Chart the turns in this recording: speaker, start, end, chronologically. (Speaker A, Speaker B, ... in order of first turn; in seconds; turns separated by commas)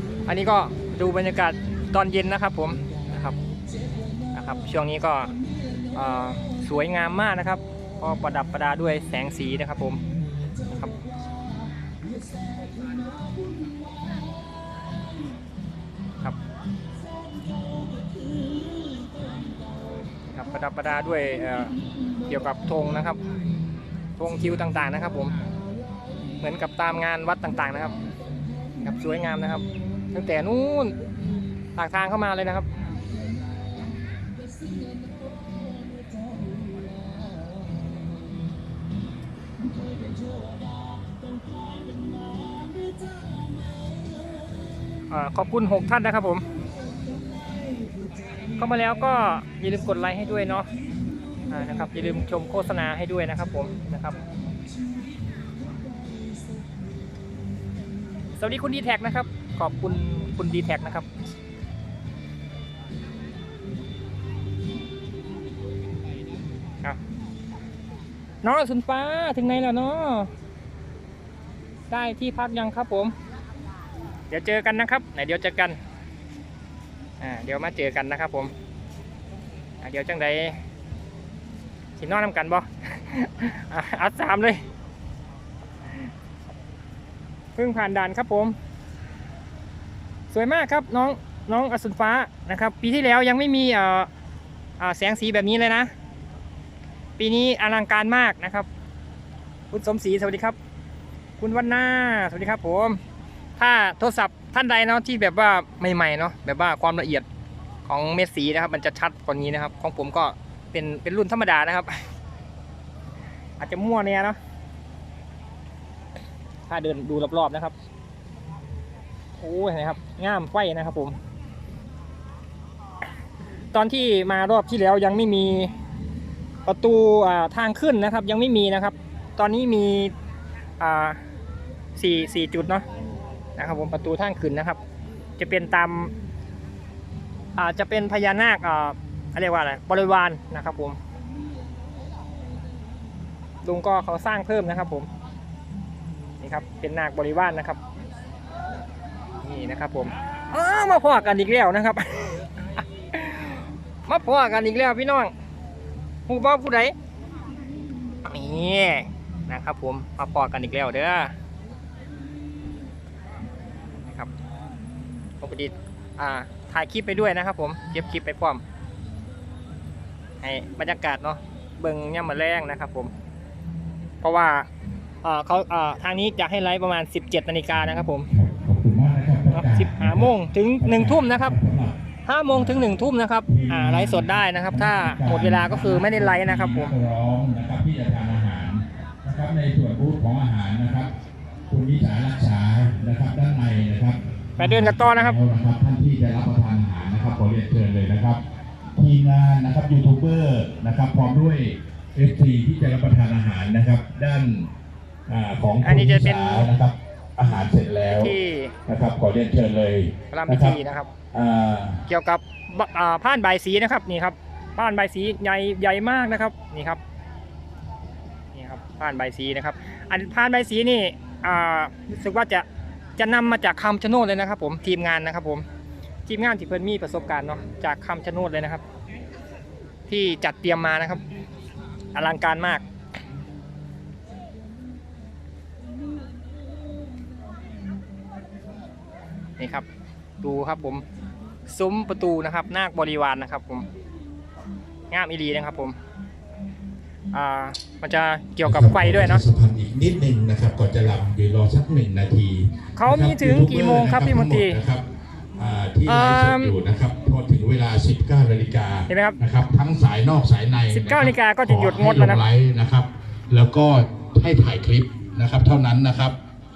Speaker A: 0.3-3.4, Speaker A: 4.3-5.3, Speaker A: 5.9-10.0, Speaker A: 10.7-10.9, Speaker A: 20.3-21.7, Speaker A: 22.2-23.2, Speaker A: 24.2-25.3, Speaker A: 26.4-28.0, Speaker A: 28.8-31.0, Speaker A: 31.8-32.7, Speaker A: 45.1-46.4, Speaker A: 48.5-50.7, Speaker A: 51.5-54.2, Speaker A: 58.4-61.1, Speaker A: 68.4-70.3, Speaker A: 71.9-73.1, Speaker A: 74.3-75.8, Speaker A: 77.2-78.5, Speaker A: 79.8-80.6, Speaker A: 82.0-84.6, Speaker A: 87.5-88.5, Speaker A: 90.3-94.1, Speaker A: 94.8-95.9, Speaker A: 97.2-98.7, Speaker A: 99.7-100.6, Speaker A: 101.4-103.0, Speaker A: 103.6-107.2, Speaker A: 107.9-112.0, Speaker A: 113.6-114.4, Speaker A: 116.7-117.7, Speaker A: 119.4-121.2, Speaker A: 123.7-125.7, Speaker A: 126.6-130.1, Speaker A: 130.8-131.2, Speaker A: 132.0-132.8, Speaker A: 133.6-134.8, Speaker A: 135.4-136.1, Speaker A: 137.6-141.0, Speaker A: 143.6-145.1, Speaker A: 146.4-147.8, Speaker A: 149.4-155.3, Speaker A: 156.3-156.9, Speaker A: 158.2-161.3, Speaker A: 164.0-164.3, Speaker A: 165.4-168.6, Speaker A: 170.4-173.1, Speaker A: 174.2-174.7, Speaker A: 175.2-178.3, Speaker B: 178.3-182.0, Speaker A: 179.5-181.6, Speaker A: 182.3-186.9, Speaker B: 182.5-182.9, Speaker B: 183.5-191.1, Speaker B: 191.7-198.4, Speaker A: 194.6-195.4, Speaker B: 199.0-204.7, Speaker B: 205.3-208.3, Speaker A: 205.8-206.7, Speaker A: 208.1-208.8, Speaker B: 208.9-210.8, Speaker A: 210.3-211.1, Speaker B: 211.3-212.0, Speaker A: 212.1-217.0, Speaker A: 218.5-222.7, Speaker A: 223.2-225.7, Speaker A: 226.3-228.8, Speaker A: 230.1-231.2, Speaker A: 232.1-232.8, Speaker A: 239.6-239.9, Speaker A: 240.4-241.0, Speaker A: 241.7-243.9, Speaker A: 245.1-246.0, Speaker A: 247.3-249.4, Speaker B: 248.6-255.1, Speaker A: 253.0-254.8, Speaker B: 255.6-266.4, Speaker A: 256.1-256.8, Speaker A: 259.1-259.4, Speaker A: 260.9-262.4